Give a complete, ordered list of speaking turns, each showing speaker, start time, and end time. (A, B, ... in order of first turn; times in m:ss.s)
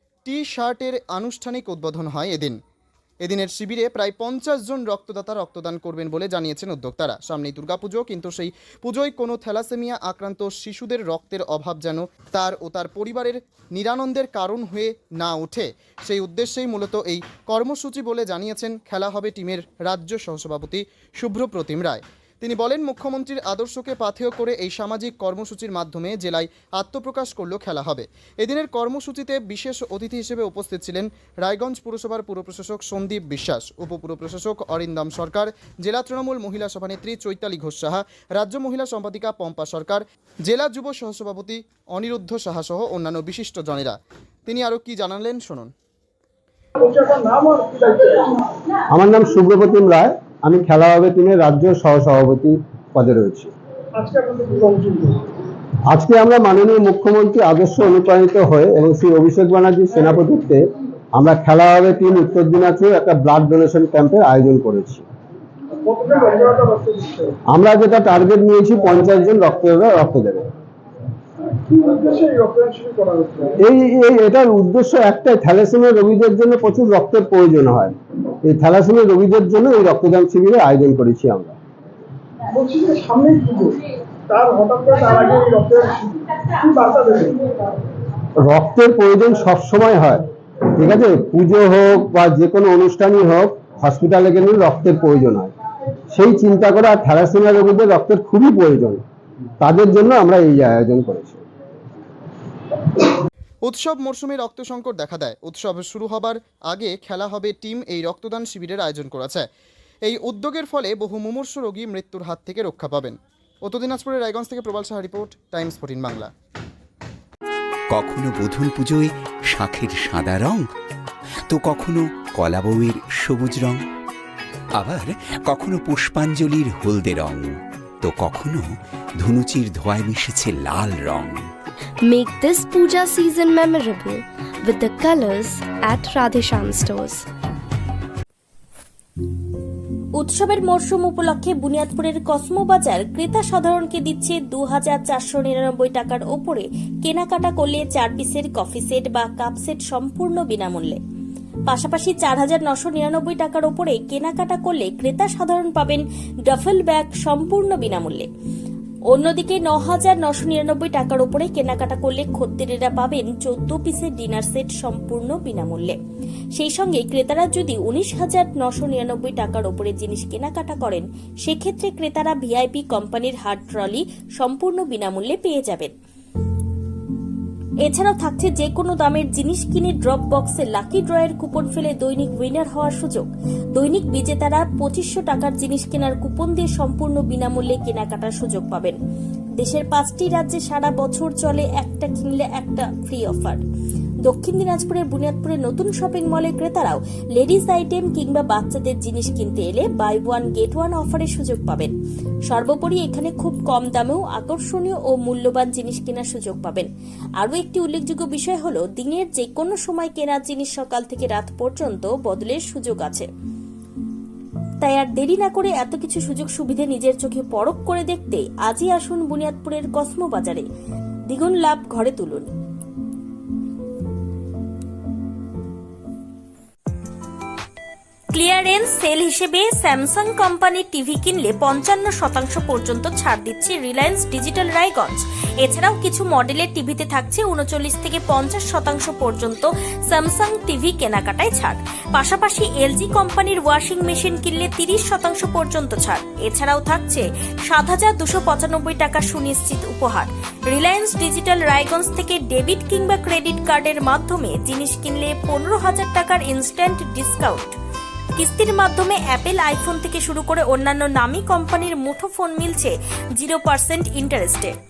0:00.2-0:02.6 A
0:03.2-0:45.7 A
0:46.8-0:48.4 B
0:48.9-0:53.5 C
0:54.0-0:55.2 B
0:55.9-1:00.6 C
1:01.2-1:05.0 C
1:05.8-1:07.3 B
1:07.5-1:10.4 C
1:11.6-1:13.5 B
1:13.6-1:21.6 C
1:22.5-1:27.6 B
1:28.4-1:35.5 C
1:36.1-1:39.0 C
1:39.6-1:41.4 C
1:43.6-1:49.5 A
1:50.0-1:56.3 A
1:57.9-2:00.6 D
2:01.5-2:03.8 D
2:04.7-2:07.5 D
2:08.0-2:08.6 D
2:09.2-2:11.4 D
2:12.1-2:17.2 E
2:20.2-2:31.0 F
2:31.7-2:38.3 F
2:39.1-2:45.9 F
2:46.6-2:55.9 F
2:57.8-3:09.0 F
3:09.6-3:13.6 F
3:14.2-3:21.9 F
3:22.5-3:33.3 F
3:34.8-3:40.6 F
3:41.3-3:42.5 F
3:48.3-4:17.7 F
4:18.4-4:24.7 F